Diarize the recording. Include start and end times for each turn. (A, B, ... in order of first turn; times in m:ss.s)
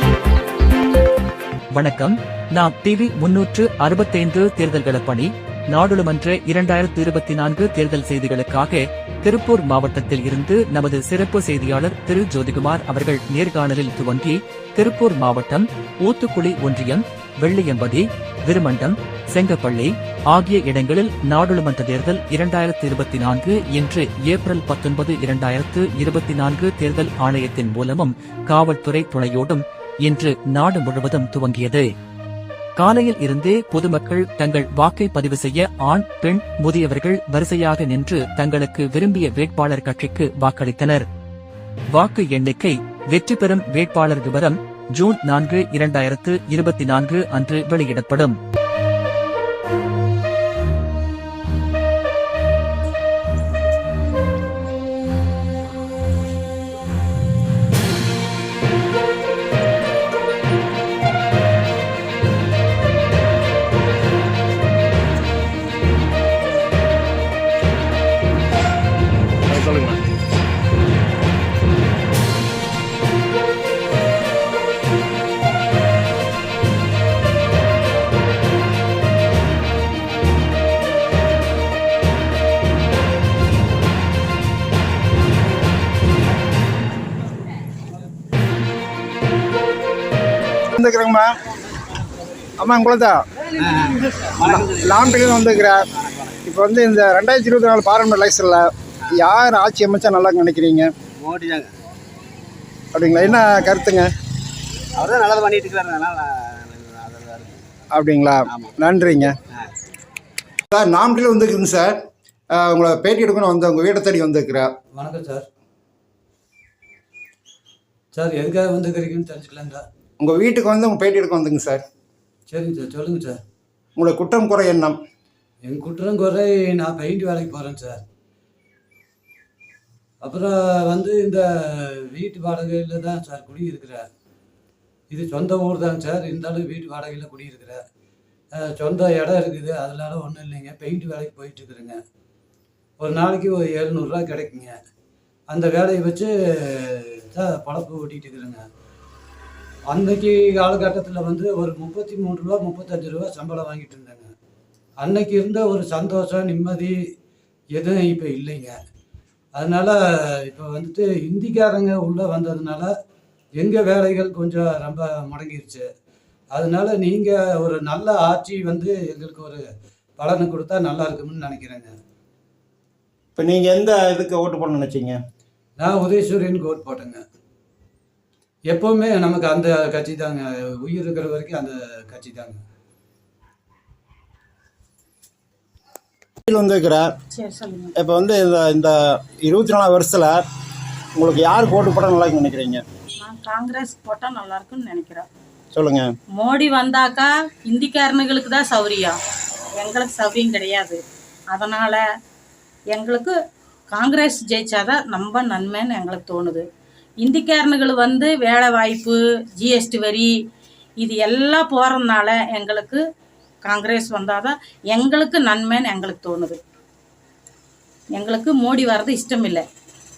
0:01.7-0:31.8 A
0:32.8-0:41.0 A
0:41.9-0:48.4 A
1:30.8-1:31.3 B
1:32.6-1:33.2 B
1:33.6-1:35.1 C
1:34.7-1:35.8 B
1:36.0-1:36.3 C
1:36.4-1:40.9 B
1:41.2-1:41.7 C
1:42.9-1:44.1 B
1:45.0-1:47.6 C
1:47.9-1:49.3 B
1:48.5-1:48.7 C
1:50.7-1:52.0 B
1:52.5-1:54.7 B
1:54.9-1:55.5 D
1:58.1-1:59.8 D
2:00.2-2:01.8 B
2:02.5-2:03.4 D
2:04.0-2:05.0 B
2:05.6-2:08.0 D
2:10.2-2:14.0 D
2:15.1-2:17.8 D
2:18.5-2:22.0 D
2:23.0-2:24.8 D
2:25.5-2:28.7 D
2:29.9-2:34.3 D
2:35.0-2:37.0 D
2:37.7-2:38.8 D
2:39.5-2:42.9 D
2:43.6-2:45.8 D
2:46.5-2:49.6 D
2:50.2-2:51.9 D
2:53.4-2:55.2 B
2:55.8-2:57.2 D
2:58.7-3:02.6 D
3:06.4-3:07.1 B
3:07.3-3:07.9 E
3:08.0-3:10.4 B
3:11.2-3:12.8 B
3:13.2-3:15.2 E
3:15.7-3:16.1 B
3:16.4-3:19.2 E
3:19.8-3:21.0 E
3:21.5-3:22.0 E
3:22.9-3:23.3 E
3:23.9-3:26.6 E
3:27.2-3:30.3 E
3:31.0-3:33.0 E
3:33.6-3:36.6 E
3:38.1-3:39.6 E